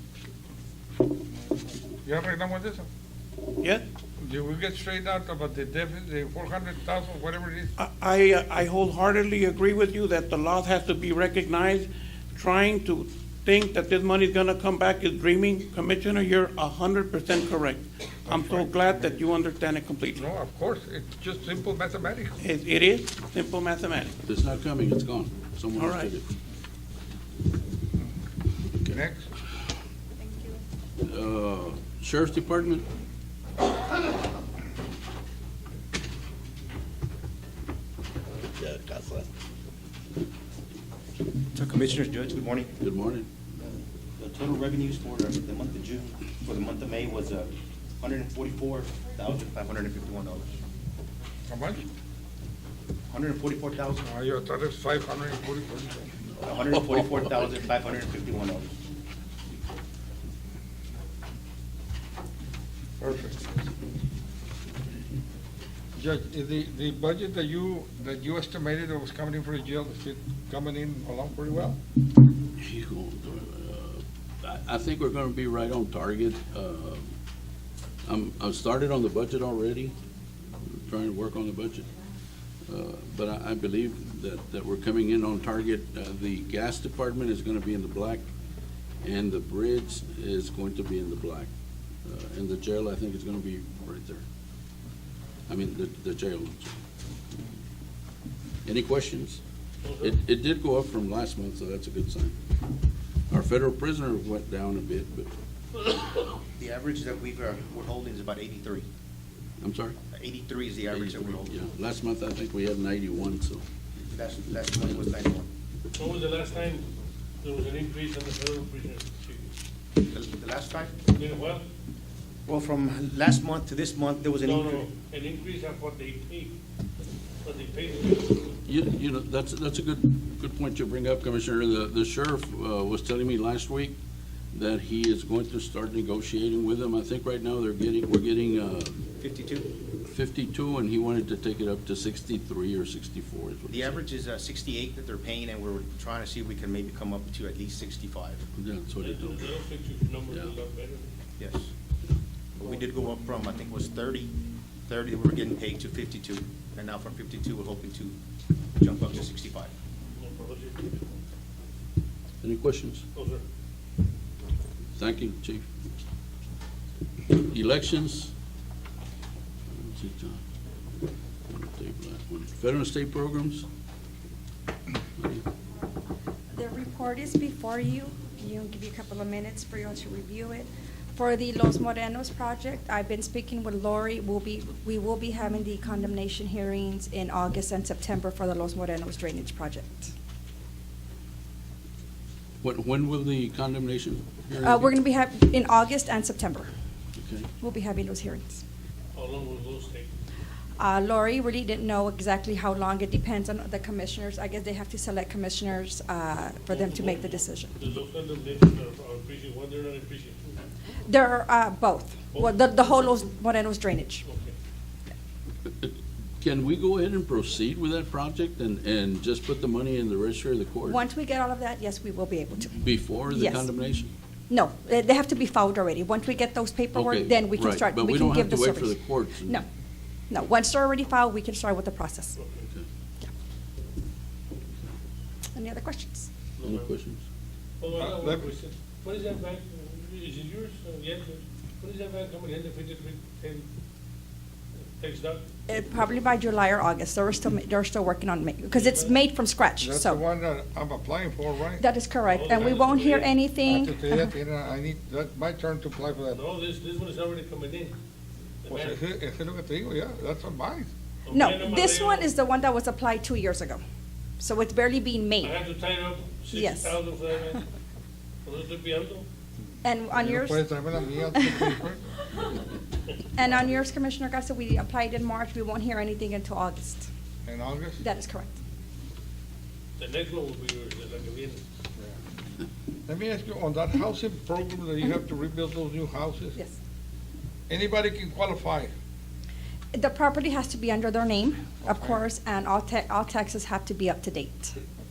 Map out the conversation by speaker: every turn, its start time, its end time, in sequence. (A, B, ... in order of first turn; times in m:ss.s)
0:02.0-0:02.9 A
0:04.2-0:07.7 A
0:07.8-0:20.2 B
0:18.3-0:19.1 A
0:20.2-0:22.4 A
0:22.4-0:24.1 B
0:24.2-0:26.2 C
0:25.8-0:26.1 B
0:28.9-0:29.3 A
0:31.0-0:32.8 C
0:38.5-0:39.3 C
0:41.5-0:42.7 D
0:42.8-0:43.3 C
0:43.6-0:50.5 D
0:51.5-0:51.9 A
0:53.1-0:54.0 D
0:54.0-0:56.1 A
0:56.4-0:58.7 D
1:03.0-1:03.4 A
1:06.0-1:11.8 A
1:12.6-1:17.1 C
1:18.0-1:20.0 C
1:20.6-1:21.9 C
1:22.7-1:28.2 C
1:29.0-1:31.5 C
1:32.0-1:34.2 C
1:35.5-1:36.7 C
1:38.6-1:39.4 C
1:39.8-1:40.2 E
1:40.0-1:42.4 C
1:43.3-1:45.3 C
1:46.6-1:48.9 D
1:49.6-1:50.0 C
1:50.1-1:51.6 D
1:50.9-1:53.6 C
1:54.0-1:55.5 D
1:55.9-1:56.8 E
1:57.4-1:59.5 E
2:00.0-2:01.0 D
2:01.1-2:01.6 E
2:02.5-2:04.8 D
2:04.4-2:06.6 E
2:07.4-2:08.3 E
2:08.6-2:14.0 C
2:14.5-2:19.0 C
2:19.2-2:19.7 D
2:20.1-2:24.0 C
2:23.7-2:28.4 D
2:28.5-2:29.6 C
2:29.0-2:31.1 E
2:30.3-2:30.6 C
2:31.4-2:31.7 D
2:32.6-2:34.3 D
2:32.6-2:33.0 E
2:34.8-2:38.2 D
2:38.8-2:39.7 D
2:40.2-2:41.0 E
2:42.4-2:43.0 C
2:43.1-2:43.4 E
2:45.0-2:45.6 C
2:47.3-2:48.3 C
2:49.7-2:50.4 C
2:51.5-2:53.7 C
2:55.2-2:55.4 C
2:56.5-3:10.1 F
3:12.6-3:15.0 C
3:14.6-3:16.7 F
3:17.2-3:17.5 C
3:17.6-3:18.6 F
3:19.1-3:20.1 E
3:20.8-3:27.7 F
3:26.7-3:30.6 E
3:31.1-3:34.2 F
3:32.3-3:33.1 E
3:34.2-3:34.5 E
3:35.7-3:41.0 C
3:40.8-3:43.7 F
3:42.8-3:44.1 C
3:44.5-3:49.6 F
3:46.9-3:49.6 C
3:50.3-3:52.4 F
3:52.4-3:52.6 E
3:55.5-3:56.3 F
3:56.6-3:56.9 E
3:56.6-3:57.2 C
3:57.8-4:03.7 E
3:58.0-3:58.5 A
4:05.0-4:05.4 E
4:05.7-4:10.2 F
4:08.7-4:09.2 E
4:09.8-4:11.8 A
4:11.8-4:14.0 F
4:12.3-4:13.3 E
4:12.5-4:12.9 A
4:13.6-4:16.4 A
4:16.3-4:17.9 E
4:18.6-4:19.0 E
4:18.7-4:20.9 A
4:21.2-4:22.3 E
4:21.3-4:23.8 F
4:24.4-4:25.5 F
4:25.4-4:27.6 E
4:26.5-4:27.0 F
4:28.4-4:29.2 E
4:29.8-4:30.7 F
4:30.1-4:32.0 A
4:31.3-4:31.8 F
4:33.4-4:37.1 F
4:37.4-4:38.0 A
4:38.0-4:38.5 F
4:40.0-4:41.6 E
4:43.1-4:46.6 A
4:47.7-4:48.9 A
4:49.9-4:54.8 F
4:51.8-4:52.2 A